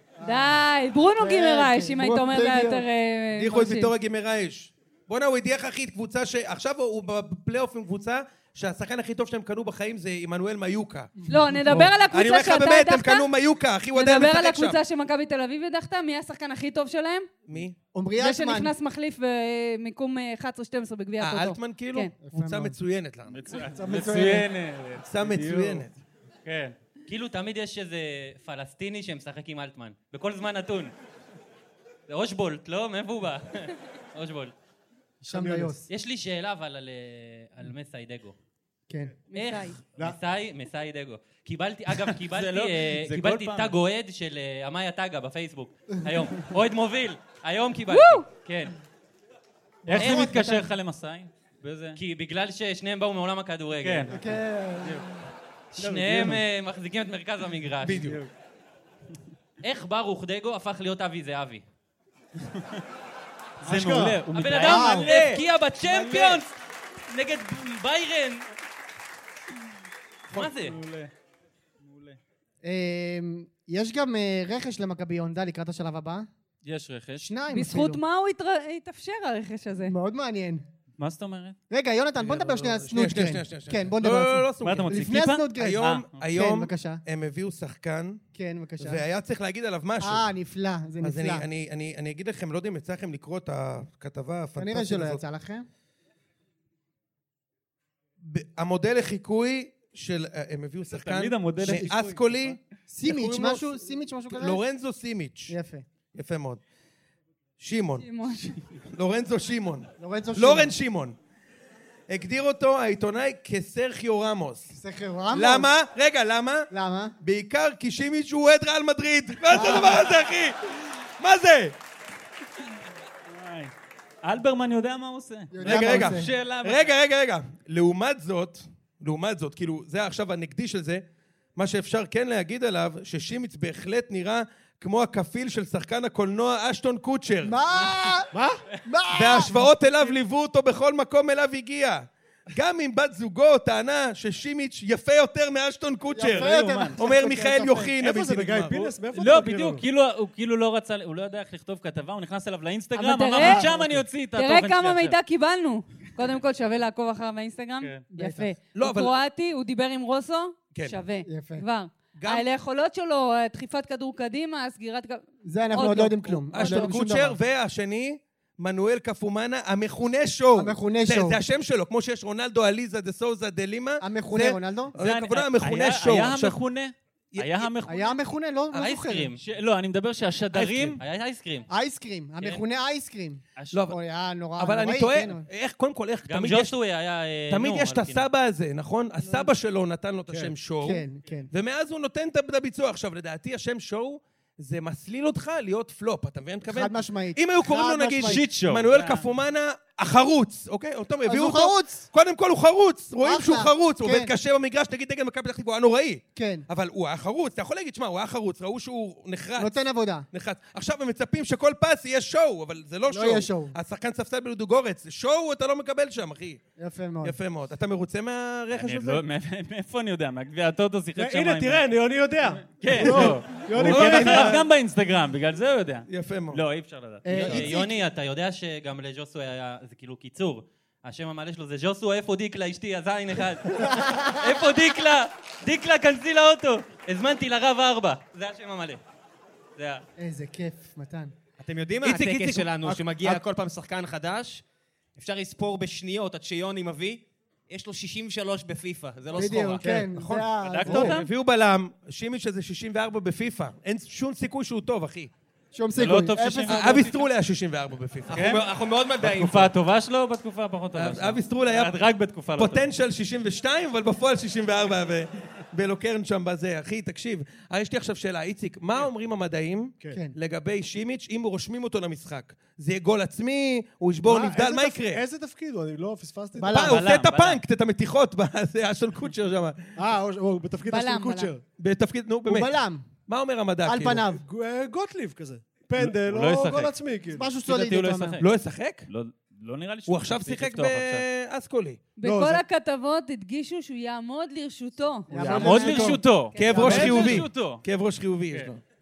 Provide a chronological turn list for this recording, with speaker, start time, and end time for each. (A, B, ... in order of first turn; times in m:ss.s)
0:00.2-0:00.5 A
0:00.2-0:03.9 B
0:01.2-0:02.8 A
0:03.4-0:11.1 C
0:11.3-0:13.3 B
0:11.7-0:14.8 C
0:13.9-0:17.3 B
0:17.5-0:17.8 C
0:17.9-0:18.7 A
0:18.2-0:22.1 B
0:21.2-0:23.4 C
0:22.3-0:22.8 A
0:23.3-0:25.9 D
0:23.7-0:24.5 A
0:25.0-0:25.9 C
0:26.4-0:26.8 D
0:27.1-0:30.9 E
0:32.1-0:34.5 E
0:35.2-0:35.8 F
0:35.3-0:35.9 A
0:35.9-0:38.4 E
0:38.9-0:39.2 A
0:39.3-0:39.8 B
0:39.3-0:48.7 E
0:42.1-0:43.7 D
0:47.9-0:48.2 B
0:49.9-0:50.7 A
0:49.9-0:52.0 D
0:50.0-0:50.4 E
0:52.0-0:54.1 E
0:53.8-0:55.1 D
0:54.1-0:55.1 A
0:55.8-0:58.1 E
0:55.8-0:56.4 D
0:57.8-0:58.2 C
0:57.9-0:58.3 D
0:59.6-1:01.6 E
1:03.6-1:06.4 D
1:03.6-1:04.2 F
1:04.3-1:06.6 E
1:04.6-1:05.2 A
1:07.1-1:08.5 E
1:10.3-1:11.1 D
1:10.3-1:10.8 E
1:11.8-1:12.2 D
1:12.6-1:16.3 A
1:16.6-1:17.3 D
1:17.2-1:18.0 A
1:17.5-1:20.0 B
1:19.9-1:20.6 A
1:21.0-1:21.6 D
1:21.7-1:27.0 A
1:22.2-1:28.2 C
1:24.6-1:26.2 D
1:28.4-1:29.0 A
1:28.8-1:30.3 C
1:30.0-1:31.5 A
1:31.0-1:35.2 C
1:34.6-1:35.7 A
1:38.2-1:45.6 C
1:40.9-1:42.2 D
1:41.6-1:41.9 A
1:42.9-1:44.6 A
1:45.5-1:45.9 A
1:46.1-1:46.6 C
1:47.6-1:51.2 C
1:48.0-1:48.5 B
1:50.0-1:50.7 A
1:52.1-1:54.7 C
1:54.7-1:55.7 A
1:55.3-1:56.7 C
1:56.7-1:57.2 A
1:57.2-2:00.6 C
1:59.5-2:00.0 A
2:01.2-2:01.8 C
2:03.3-2:03.7 D
2:04.2-2:06.9 D
2:05.5-2:06.3 A
2:05.6-2:11.0 C
2:11.6-2:17.6 C
2:17.4-2:18.3 A
2:18.3-2:18.6 F
2:18.8-2:19.6 A
2:19.1-2:28.9 C
2:26.1-2:27.9 A
2:26.2-2:27.0 D
2:28.0-2:29.8 F
2:29.1-2:35.2 D
2:33.0-2:33.7 B
2:33.4-2:33.7 A
2:34.3-2:46.9 B
2:38.1-2:38.5 A
2:38.8-2:39.2 C
2:40.7-2:41.0 C
2:41.3-2:41.6 A
2:42.2-2:42.5 C
2:45.4-2:47.4 A
2:46.5-2:56.6 C
2:50.6-2:51.4 A
2:54.0-2:55.0 A
2:55.0-2:58.2 D
2:57.3-2:57.7 C
2:57.8-2:59.3 A
2:58.7-2:59.4 E
2:59.4-3:01.0 D
3:00.5-3:01.0 C
3:01.0-3:01.7 E
3:01.7-3:05.5 A
3:03.6-3:03.8 D
3:03.7-3:04.0 C
3:04.6-3:06.8 C
3:06.3-3:08.3 E
3:07.5-3:29.7 C
3:10.8-3:11.5 A
3:16.7-3:18.5 A
3:18.2-3:19.3 D
3:21.3-3:22.1 A
3:23.2-3:24.3 A
3:26.4-3:26.7 A
3:29.6-3:30.3 A
3:30.3-3:36.6 C
3:33.1-3:33.8 A
3:36.8-3:37.4 A
3:37.2-3:39.2 C
3:38.7-3:41.9 D
3:41.2-3:44.6 F
3:42.6-3:47.6 D
3:43.0-3:44.6 C
3:46.1-3:46.6 C
3:47.2-3:47.9 A
3:47.3-3:59.0 E
3:53.7-3:54.7 A
3:59.8-4:00.0 E
4:00.2-4:01.3 A
4:01.6-4:04.6 G
4:02.0-4:02.7 C
4:05.2-4:10.1 G
4:09.3-4:11.2 A
4:09.9-4:15.3 C
4:10.6-4:11.3 D
4:15.7-4:17.0 A
4:16.0-4:17.2 D
4:16.7-4:18.4 C
4:18.3-4:19.7 G
4:18.3-4:18.6 D
4:19.2-4:22.8 D
4:21.0-4:22.0 C
4:22.6-4:35.2 C
4:34.2-4:37.1 F
4:36.6-4:37.0 A
4:36.7-4:39.9 C
4:36.8-4:37.6 D
4:40.0-4:41.6 F
4:40.9-4:41.5 A
4:41.8-4:44.3 C
4:42.5-4:43.1 A
4:43.8-4:44.4 A
4:44.3-4:47.6 F
4:46.0-4:47.0 D
4:47.3-4:48.4 A
4:47.6-4:48.4 D
4:48.4-4:49.1 C
4:49.1-4:51.2 D
4:50.1-4:52.0 C
4:52.2-4:57.4 B
4:52.2-4:52.6 F
4:55.3-4:57.3 A
4:55.3-4:56.2 F
4:55.4-4:57.8 D
4:56.5-4:58.8 C